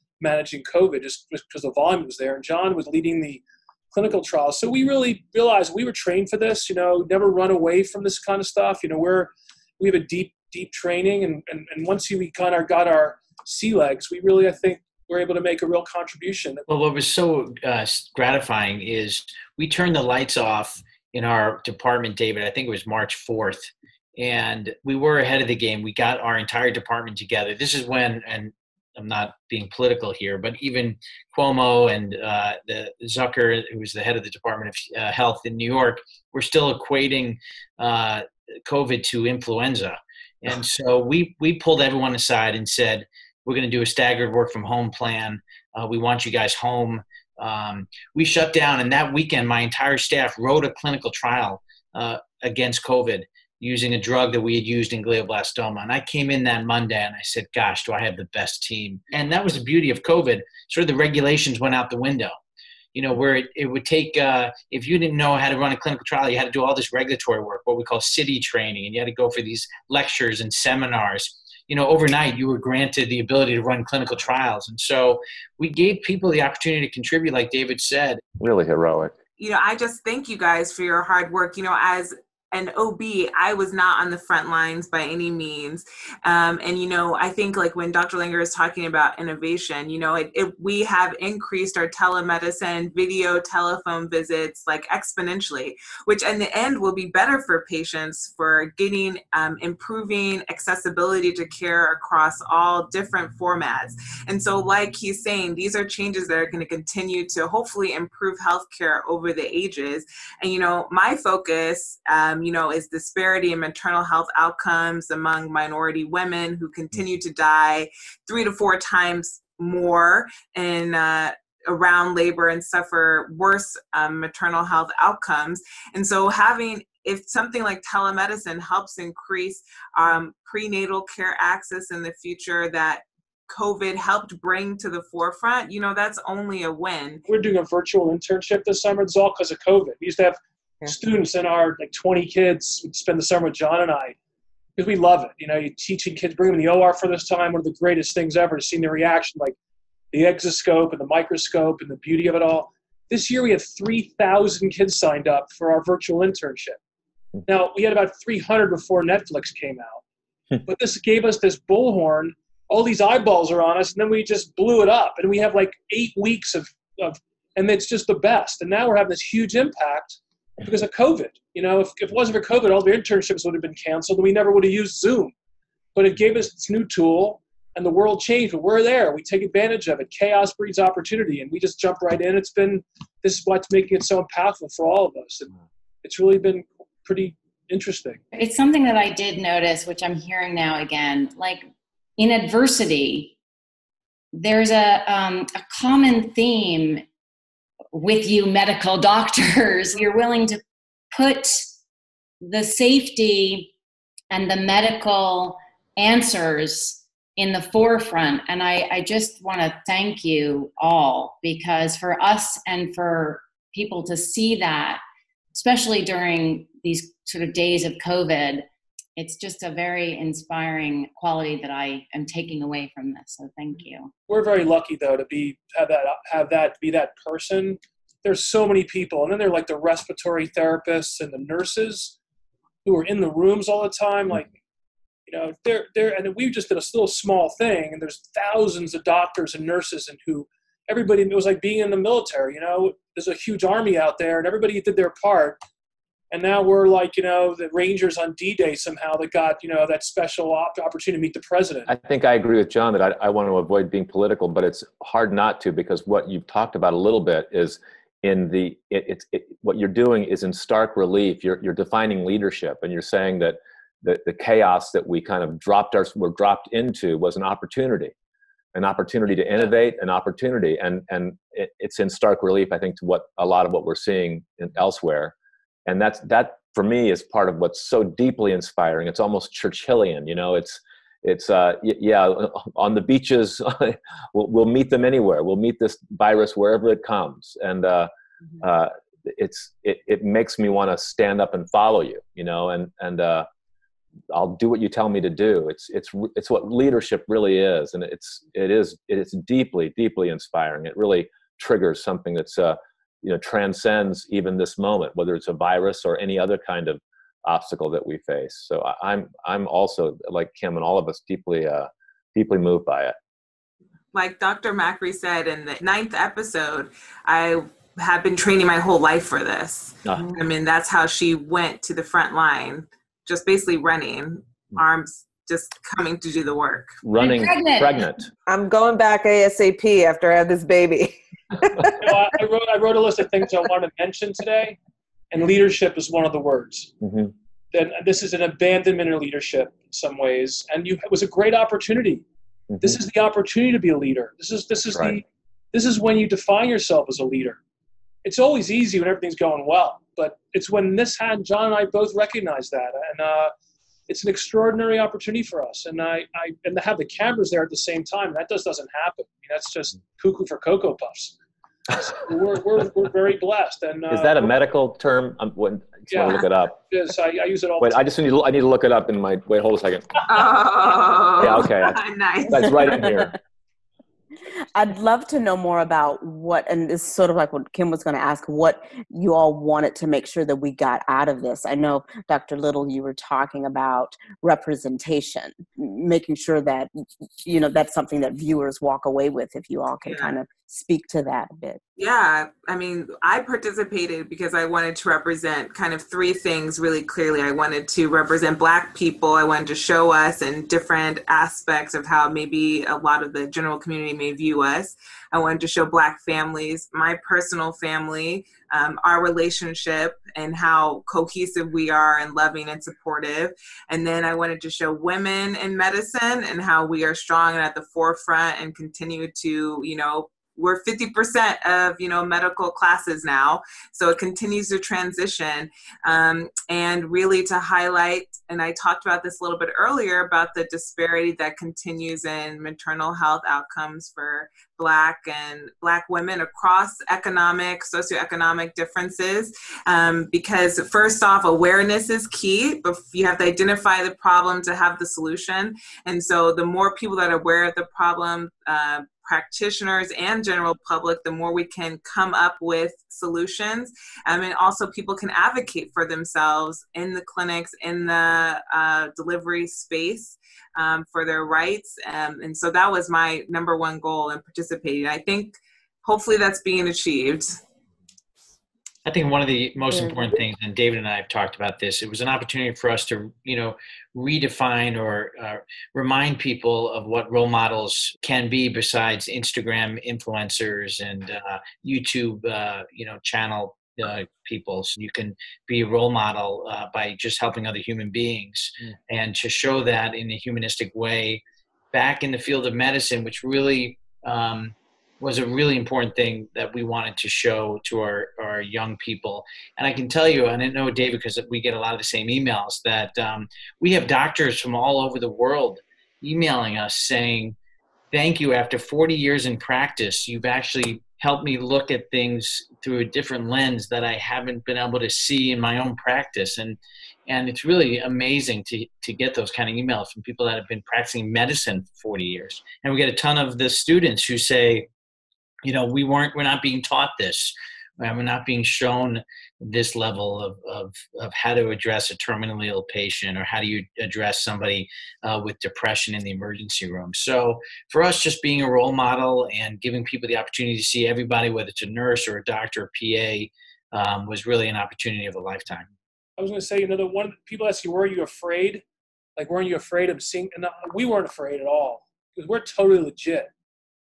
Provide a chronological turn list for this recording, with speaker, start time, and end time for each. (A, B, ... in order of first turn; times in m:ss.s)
0:00.2-0:16.6 A
0:16.7-1:02.4 B
1:02.9-1:18.2 B
1:18.4-1:19.2 C
1:19.4-2:17.2 D
2:17.3-2:24.2 A
2:24.8-2:29.6 A
2:30.1-2:36.8 A
2:37.4-2:40.0 A
2:40.6-2:55.3 A
2:55.9-3:08.2 A
3:08.3-3:11.6 E
3:12.2-3:13.3 E
3:14.3-3:17.0 E
3:17.9-3:20.6 E
3:21.1-3:21.6 E
3:22.4-3:23.7 E
3:24.3-3:35.0 E
3:35.5-3:38.6 E
3:39.2-3:44.1 E
3:44.3-3:52.2 A
3:52.8-3:54.5 A
3:55.2-4:05.6 A
4:06.3-4:11.9 A
4:11.9-4:28.1 C
4:28.7-4:35.3 C
4:35.8-4:48.1 C
4:48.6-4:53.5 C
4:54.3-5:13.1 C
5:14.1-5:27.0 D
5:20.0-5:20.4 C
5:27.0-5:28.3 C
5:27.2-5:28.0 E
5:28.5-5:32.3 F
5:32.0-5:34.8 A
5:35.3-5:36.9 A
5:37.0-5:37.3 C
5:37.7-5:42.2 A
5:42.8-5:47.6 A
5:44.9-5:45.2 C
5:48.2-5:53.5 A
5:54.1-6:01.4 A
6:02.0-6:04.5 A
6:04.1-6:06.8 C
6:06.1-6:08.0 A
6:07.8-6:10.2 C
6:10.2-6:13.3 D
6:11.4-6:13.3 C
6:14.7-6:26.9 G
6:27.4-6:31.8 G
6:30.0-6:30.3 D
6:32.0-7:47.6 D
7:49.0-8:27.6 B
8:28.1-8:44.9 B
8:45.6-9:05.9 B
9:06.4-9:08.8 A
9:09.4-9:13.5 A